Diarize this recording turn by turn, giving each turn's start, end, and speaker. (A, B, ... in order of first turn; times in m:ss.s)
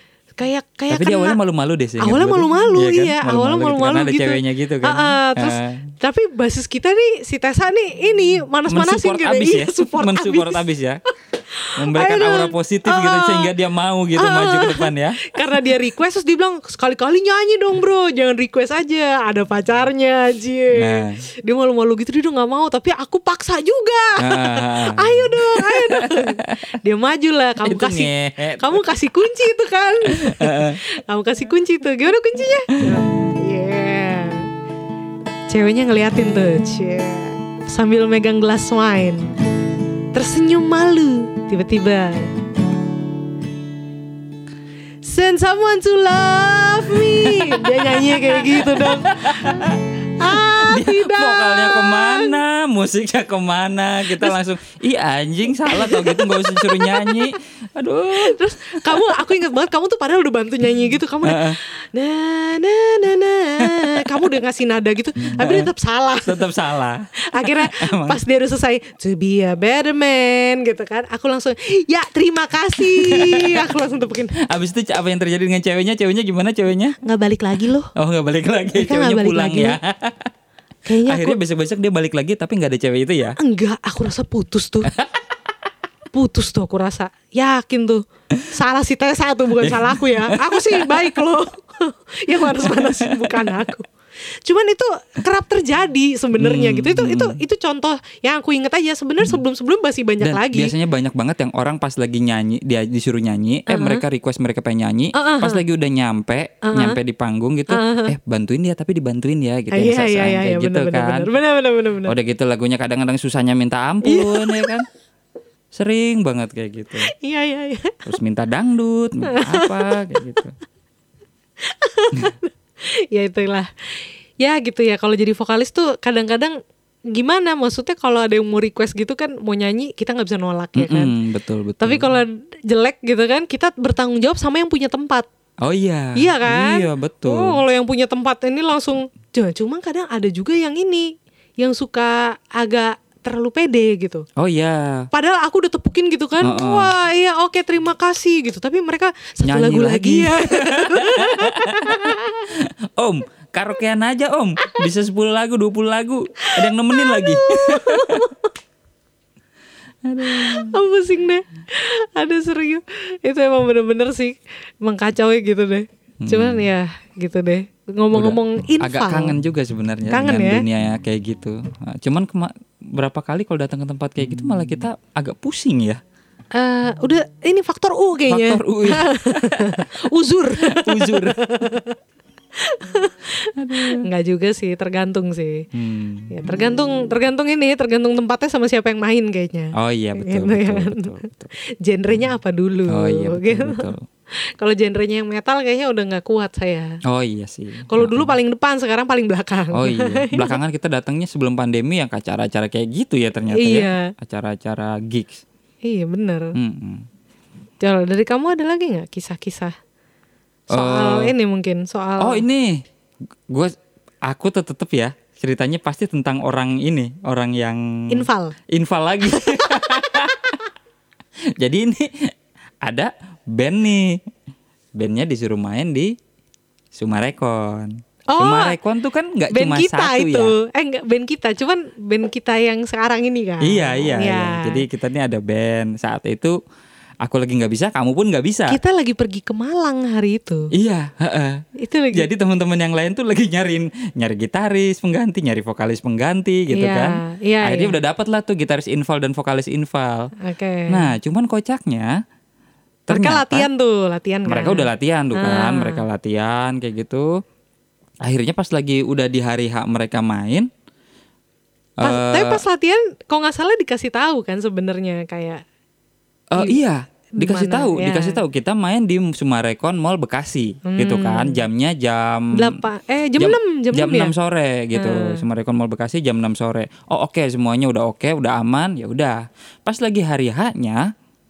0:00.4-0:01.4 A
0:00.9-0:05.9 B
0:02.0-0:10.6 A
0:08.7-0:11.0 B
0:11.7-0:13.5 A
0:11.8-0:15.3 B
0:14.2-0:28.1 A
0:20.8-0:21.2 B
0:24.2-0:26.6 B
0:27.6-0:28.8 B
0:28.6-0:34.5 A
0:30.1-0:30.8 B
0:32.8-0:33.3 B
0:35.5-0:39.3 A
0:40.1-0:42.3 A
0:45.0-0:52.4 A
0:47.2-0:59.3 B
0:54.1-0:54.4 A
0:55.7-0:57.3 A
0:58.1-1:06.5 A
1:01.2-1:01.6 B
1:03.6-1:04.3 B
1:05.4-1:05.7 B
1:06.2-1:08.2 B
1:07.3-1:14.4 A
1:12.8-1:13.7 B
1:14.4-1:17.0 B
1:17.0-1:17.9 A
1:18.0-1:20.3 B
1:18.8-1:19.8 A
1:20.8-1:21.4 A
1:21.0-1:23.4 B
1:23.4-1:24.9 A
1:26.1-1:33.9 A
1:29.6-1:31.2 B
1:32.4-1:33.6 B
1:34.5-1:40.7 A
1:36.4-1:37.4 B
1:40.2-1:51.3 B
1:43.7-1:44.0 A
1:45.1-1:45.6 A
1:46.6-1:47.0 A
1:47.7-1:48.1 A
1:49.7-1:52.1 A
1:52.0-1:54.9 B
1:54.0-1:54.7 A
1:55.7-1:57.1 B
1:57.2-1:58.0 A
1:58.1-2:00.5 B
1:59.3-1:59.7 A
2:01.7-2:02.5 A
2:03.1-2:03.7 A
2:04.4-2:06.6 A
2:07.1-2:11.1 A
2:10.8-2:12.1 B
2:11.8-2:15.3 A
2:15.6-2:17.6 B
2:16.2-2:24.3 A
2:24.4-2:25.1 B
2:25.1-2:32.5 A
2:26.4-2:26.9 B
2:29.4-2:38.3 B
2:36.5-2:38.5 A
2:40.0-2:40.8 B
2:40.3-2:49.4 A
2:46.2-2:46.7 B
2:48.1-2:56.0 B
2:50.1-2:50.6 A
2:56.6-3:02.0 A
2:58.3-2:59.9 B
3:00.6-3:01.4 B
3:02.6-3:05.7 A
3:03.6-3:04.0 B
3:05.7-3:06.3 B
3:06.3-3:11.2 A
3:09.8-3:11.5 B
3:11.8-3:13.9 A
3:12.9-3:14.0 B
3:14.6-3:17.0 A
3:17.1-3:18.3 B
3:17.9-3:20.6 A
3:19.7-3:25.4 B
3:23.5-3:24.1 A
3:25.8-3:26.5 A
3:26.6-3:27.0 B
3:27.8-3:29.7 A
3:30.7-3:32.4 A
3:30.7-3:31.3 B
3:32.2-3:32.8 B
3:34.3-3:40.6 B
3:38.1-3:38.6 A
3:39.4-3:39.9 A
3:41.6-3:42.3 B
3:42.8-3:44.2 B
3:45.0-3:46.1 B
3:46.9-3:50.5 B
3:48.3-3:48.8 A
3:49.5-3:54.8 A
3:53.6-3:56.6 B
3:57.2-3:58.8 B
3:58.7-4:00.7 A
4:00.8-4:10.3 B
4:01.8-4:02.3 A
4:06.7-4:08.0 A
4:10.4-4:11.1 A
4:10.9-4:12.1 B
4:13.1-4:13.7 B
4:13.1-4:16.0 A
4:14.5-4:17.3 B
4:18.2-4:20.7 B
4:22.0-4:22.6 B
4:22.0-4:25.6 A
4:26.5-4:32.8 B
4:27.4-4:28.4 A
4:30.8-4:31.6 A
4:32.5-4:34.3 A
4:33.4-4:41.1 B
4:34.9-4:35.4 A